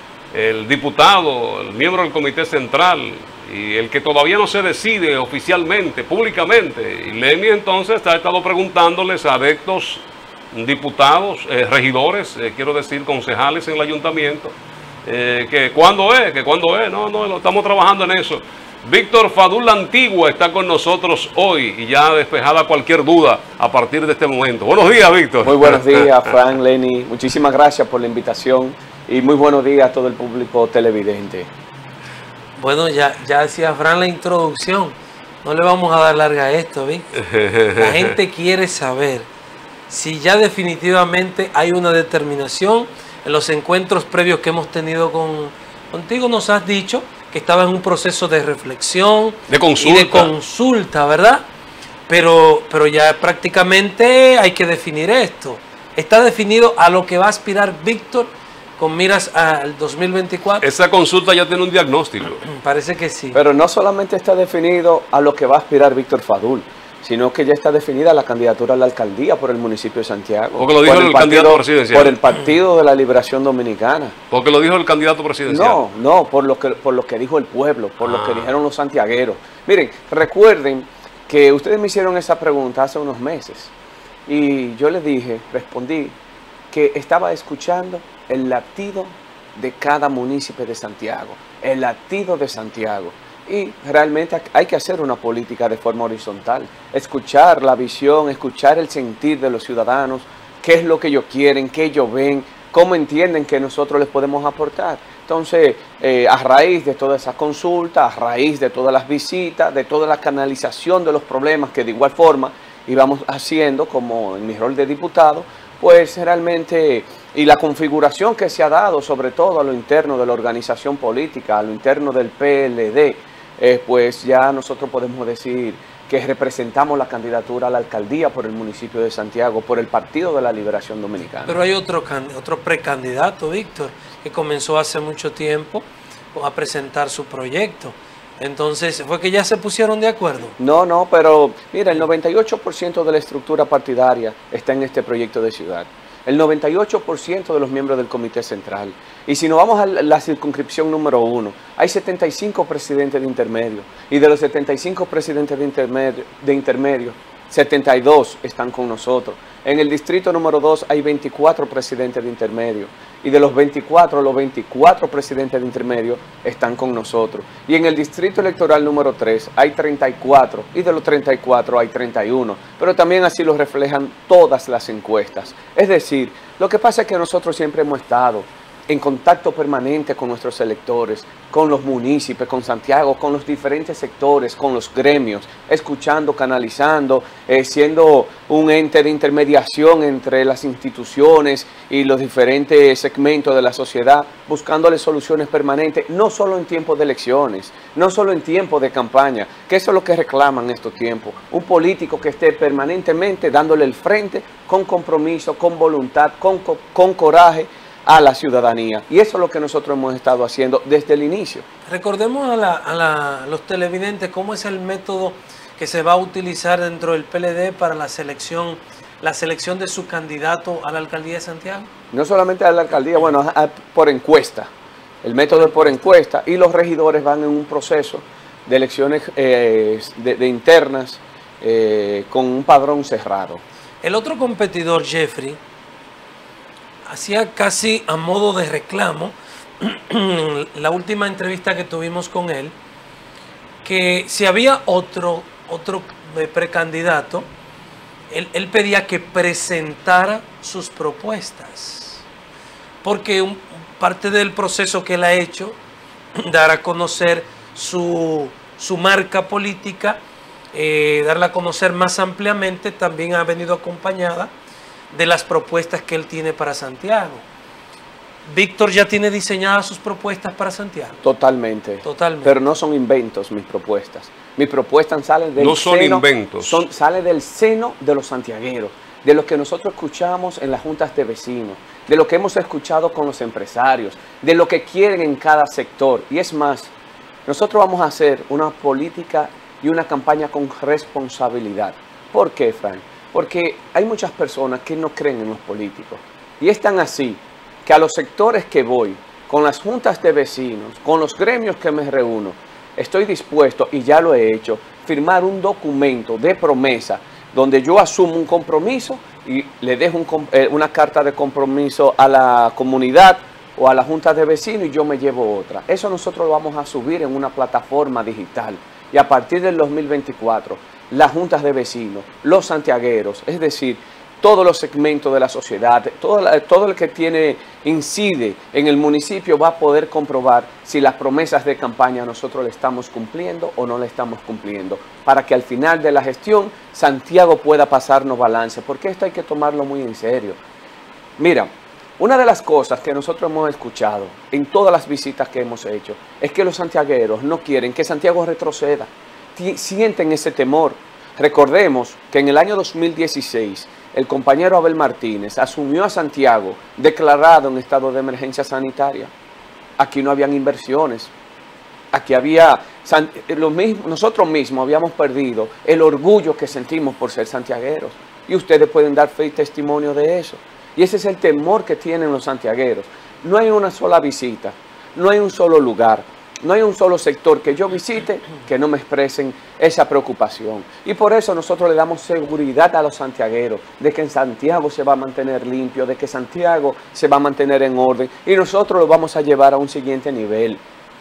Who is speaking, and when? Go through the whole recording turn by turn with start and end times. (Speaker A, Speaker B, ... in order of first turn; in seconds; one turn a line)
Speaker A: 0.3-14.5
Speaker A: 15.1-26.1
Speaker B: 25.4-31.5
Speaker C: 32.6-37.2
Speaker A: 37.2-38.1
Speaker C: 37.7-39.3
Speaker C: 39.9-51.5
Speaker A: 49.5-50.3
Speaker C: 52.1-60.7
Speaker A: 60.6-62.5
Speaker C: 62.5-63.4
Speaker B: 63.3-74.2
Speaker A: 70.6-72.2
Speaker A: 74.3-75.8
Speaker B: 75.5-83.7
Speaker A: 78.0-78.5
Speaker B: 84.3-86.2
Speaker B: 86.7-131.6
Speaker C: 131.5-140.6
Speaker B: 140.6-211.7
Speaker C: 211.9-221.9
Speaker B: 222.1-224.7
Speaker B: 225.2-233.6
Speaker C: 225.5-226.0
Speaker C: 234.0-235.6
Speaker C: 237.1-242.8
Speaker C: 243.8-247.5
Speaker C: 248.3-252.2
Speaker C: 253.0-255.8
Speaker C: 256.4-260.2
Speaker C: 260.7-264.5
Speaker C: 265.1-267.5
Speaker C: 268.5-271.2
Speaker B: 271.2-286.9
Speaker C: 272.0-272.6
Speaker A: 275.6-276.8
Speaker B: 287.5-340.6
Speaker B: 341.4-359.3
Speaker B: 360.0-361.3
Speaker B: 362.1-390.8